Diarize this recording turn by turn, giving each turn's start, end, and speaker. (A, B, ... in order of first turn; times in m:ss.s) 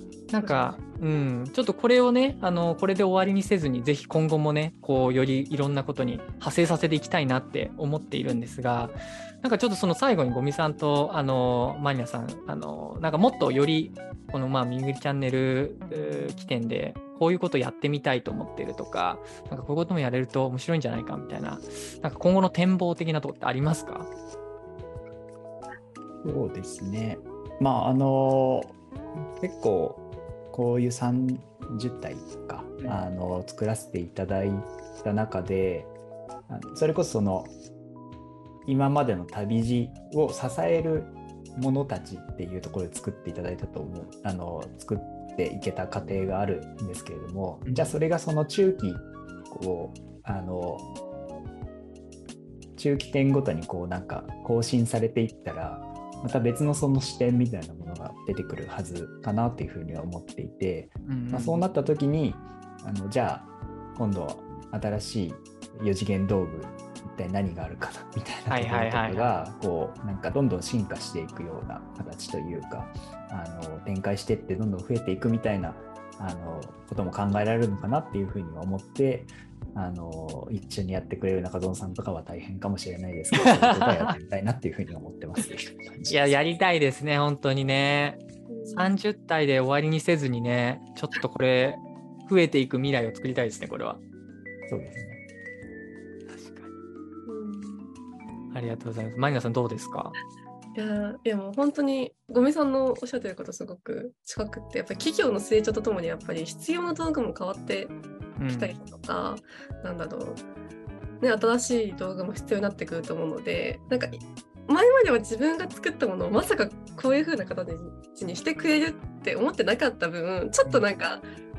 0:00.3-0:24.1 A
0:00.4-0:00.8 B
0:26.2-0:28.8 C
0:29.4-0:35.9 C
0:32.8-0:33.1 A
0:36.5-0:37.6 C
0:38.7-0:50.9 C
0:47.6-0:48.0 A
0:52.8-1:26.3 C
1:01.0-1:01.6 A
1:08.5-1:09.3 A
1:23.4-1:24.1 A
1:26.1-1:34.0 A
1:28.5-1:29.0 B
1:34.7-1:35.2 C
1:36.3-1:36.8 A
1:37.3-1:37.9 B
1:38.5-1:40.2 A
1:40.8-1:48.0 B
1:48.4-1:48.8 A
1:48.5-1:50.4 B
1:51.2-2:01.2 B